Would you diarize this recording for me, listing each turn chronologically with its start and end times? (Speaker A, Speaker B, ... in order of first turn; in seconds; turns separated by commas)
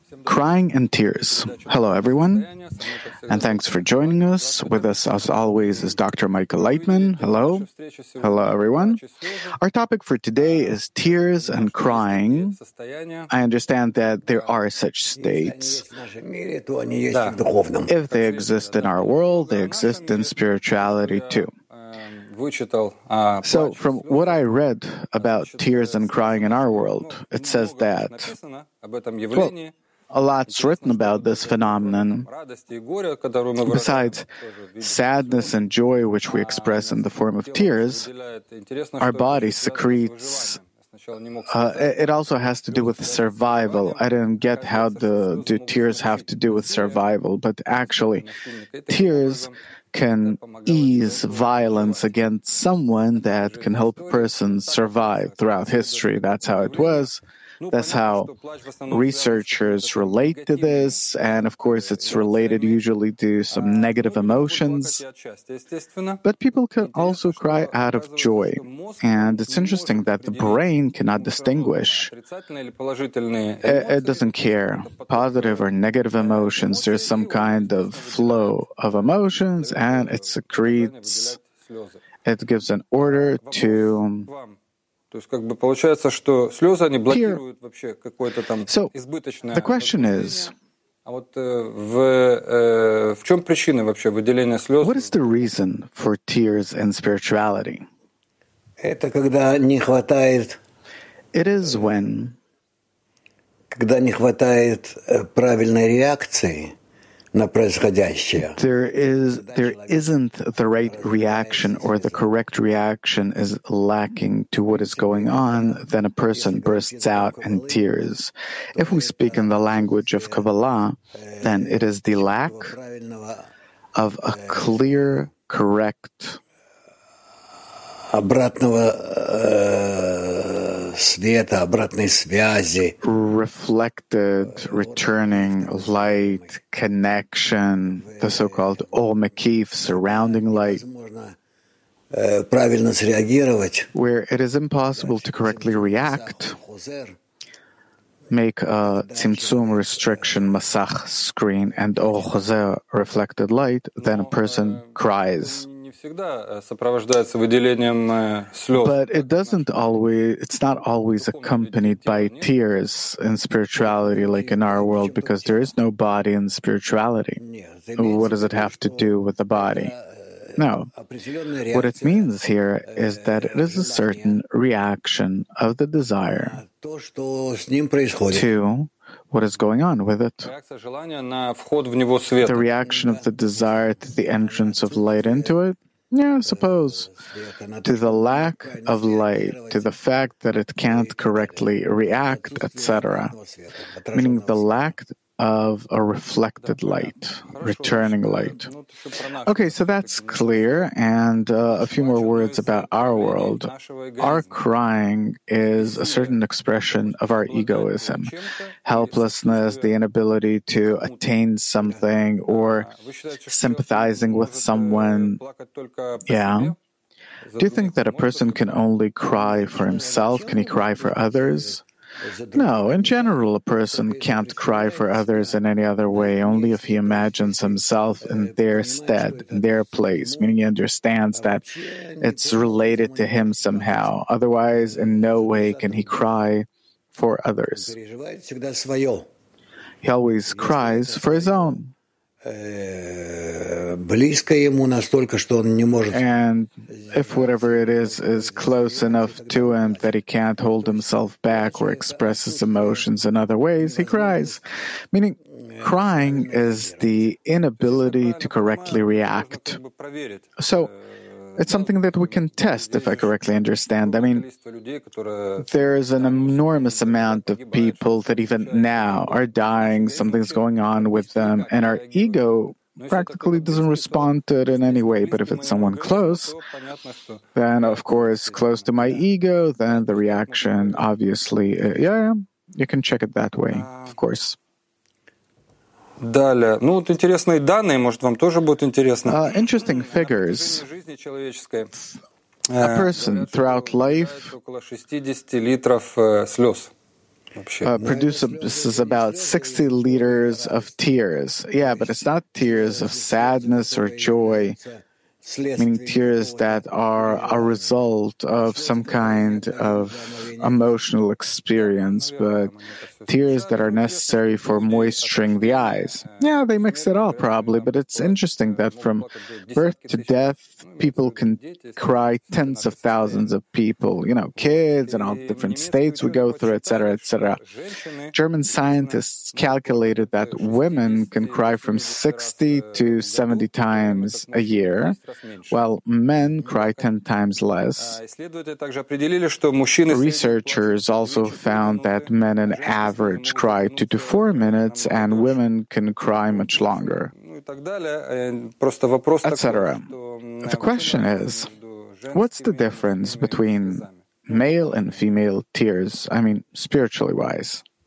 Speaker A: 0.3-2.5, Speaker B: 1.4-4.9, Speaker A: 3.3-7.7, Speaker B: 6.8-8.4, Speaker A: 8.2-9.0, Speaker A: 9.6-12.6, Speaker B: 11.3-13.3, Speaker A: 13.3-15.8, Speaker C: 15.2-17.9, Speaker A: 17.9-21.5, Speaker B: 18.1-20.3, Speaker B: 20.9-24.4, Speaker A: 23.4-28.3, Speaker B: 25.2-29.7, Speaker A: 30.1-32.3, Speaker B: 30.7-34.1, Speaker A: 33.6-34.3, Speaker A: 34.8-38.1, Speaker B: 35.0-35.5, Speaker B: 36.3-37.0, Speaker B: 37.5-42.0, Speaker A: 39.0-40.6, Speaker A: 41.5-48.3, Speaker B: 42.7-47.0, Speaker B: 48.8-49.5, Speaker A: 48.9-58.3, Speaker B: 50.4-52.0, Speaker B: 53.4-54.1, Speaker B: 54.7-55.8, Speaker B: 56.7-57.0, Speaker B: 57.7-60.9, Speaker A: 58.9-65.0, Speaker B: 63.9-66.2, Speaker A: 66.2-72.1, Speaker B: 66.9-68.7, Speaker B: 69.5-70.6, Speaker B: 71.3-74.2, Speaker A: 73.6-81.4, Speaker B: 75.0-75.4, Speaker B: 76.2-78.5, Speaker B: 79.7-81.9, Speaker A: 82.2-84.3, Speaker B: 83.2-84.5, Speaker B: 85.1-90.3, Speaker A: 87.1-87.4, Speaker A: 88.7-88.9, Speaker A: 89.5-90.5, Speaker B: 91.1-95.1, Speaker A: 94.8-97.9, Speaker C: 98.8-100.6, Speaker A: 101.3-102.4, Speaker C: 103.7-106.8, Speaker C: 107.3-108.6, Speaker A: 108.4-122.7, Speaker C: 109.3-110.1, Speaker C: 110.9-112.3, Speaker C: 114.7-118.1, Speaker C: 118.8-120.4, Speaker C: 121.2-123.5, Speaker A: 124.0-126.4, Speaker C: 124.3-124.8, Speaker C: 128.0-133.0, Speaker A: 133.0-140.8, Speaker C: 134.5-136.5, Speaker C: 138.0-138.8, Speaker C: 140.1-141.4, Speaker C: 142.1-143.9, Speaker A: 143.9-146.6, Speaker C: 145.0-147.2, Speaker A: 148.3-155.7, Speaker C: 148.9-150.4, Speaker C: 151.9-152.2, Speaker B: 154.1-154.7, Speaker B: 155.6-158.9, Speaker A: 158.7-167.4, Speaker B: 161.2-162.3, Speaker C: 163.8-165.7, Speaker C: 167.4-172.3, Speaker A: 168.0-169.9, Speaker A: 170.6-170.9, Speaker A: 171.7-176.6, Speaker C: 172.9-174.3, Speaker C: 176.4-178.4, Speaker A: 178.3-180.5, Speaker B: 180.5-182.6, Speaker A: 182.4-187.1, Speaker C: 182.8-183.2, Speaker C: 184.2-185.5, Speaker C: 186.5-189.9, Speaker A: 187.8-193.3, Speaker C: 190.9-191.6, Speaker C: 192.3-194.8, Speaker A: 194.1-198.7, Speaker B: 196.7-200.8, Speaker A: 199.4-212.9, Speaker B: 201.9-204.4, Speaker B: 206.0-206.3, Speaker B: 207.3-209.9, Speaker B: 212.5-216.7, Speaker A: 213.5-215.4, Speaker A: 216.3-216.7, Speaker B: 217.6-218.6, Speaker A: 217.6-221.8, Speaker C: 219.3-225.6, Speaker A: 222.5-231.7, Speaker C: 226.1-230.6, Speaker C: 231.3-234.1, Speaker A: 232.2-237.9, Speaker C: 234.7-236.2, Speaker C: 237.9-239.3, Speaker A: 240.0-241.9, Speaker C: 240.5-241.8, Speaker C: 242.4-246.2, Speaker A: 246.1-259.8, Speaker C: 247.0-250.1, Speaker C: 250.8-253.1, Speaker C: 253.9-254.4, Speaker C: 255.8-257.2, Speaker B: 258.1-260.4, Speaker A: 260.6-260.9, Speaker A: 261.6-264.5, Speaker B: 262.9-263.3, Speaker B: 264.1-265.6, Speaker A: 265.6-276.6, Speaker B: 266.2-270.6, Speaker B: 271.1-272.4, Speaker B: 273.1-279.1, Speaker A: 277.6-284.6, Speaker B: 279.9-281.0, Speaker B: 283.7-284.1, Speaker B: 286.2-291.9, Speaker A: 289.2-290.9, Speaker B: 292.7-296.9, Speaker A: 292.8-294.5, Speaker B: 297.6-297.9, Speaker A: 297.8-304.8, Speaker C: 298.0-301.0, Speaker C: 301.8-308.0, Speaker A: 305.8-312.7, Speaker C: 308.6-310.9, Speaker B: 311.8-320.3, Speaker A: 313.3-327.6, Speaker B: 320.9-323.4, Speaker B: 324.8-327.6, Speaker A: 328.3-335.2, Speaker B: 329.7-335.2, Speaker A: 335.7-338.2, Speaker B: 338.1-342.3, Speaker A: 340.1-347.3, Speaker C: 342.7-343.1, Speaker B: 343.4-345.6, Speaker B: 346.7-354.1, Speaker A: 349.4-350.1, Speaker A: 350.6-351.7, Speaker A: 352.3-357.8